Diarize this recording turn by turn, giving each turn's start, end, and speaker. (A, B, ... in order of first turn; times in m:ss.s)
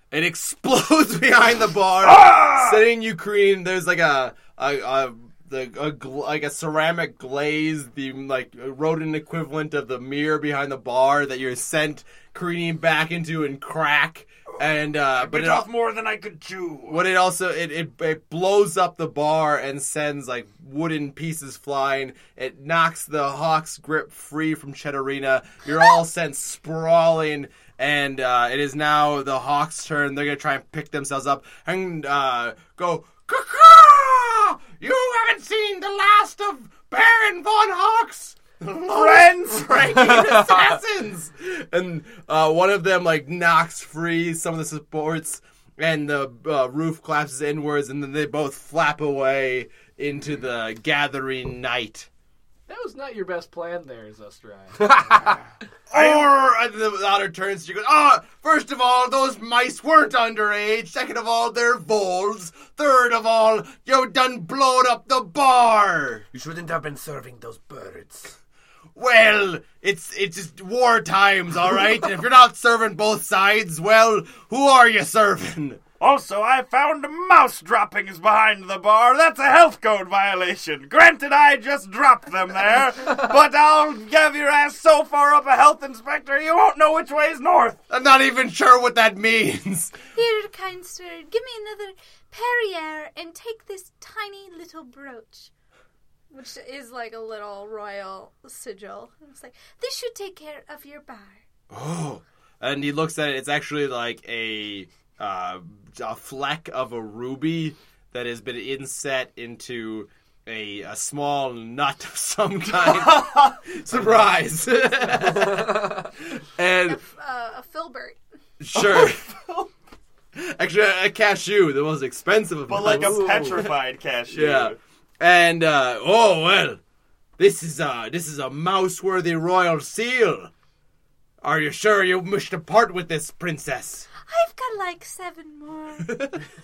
0:00.1-0:15.7 A
0:02.0-0:02.8 B
0:15.1-0:17.0 B
0:16.9-0:52.1 A
0:38.9-0:40.8 B
0:52.7-0:55.4 C
0:55.9-1:06.3 A
1:06.3-1:08.4 D
1:09.0-1:15.8 A
1:16.0-1:27.8 B
1:27.9-1:30.0 A
1:30.1-1:35.5 E
1:36.3-1:41.4 E
1:41.7-1:57.0 A
1:52.7-1:53.6 B
1:56.8-1:58.2 E
1:58.6-1:59.3 A
1:58.8-1:59.7 B
2:00.4-2:03.7 A
2:02.7-2:04.8 B
2:04.3-2:06.8 A
2:07.4-2:10.5 A
2:11.4-2:14.1 A
2:14.3-2:16.2 E
2:16.1-2:16.4 A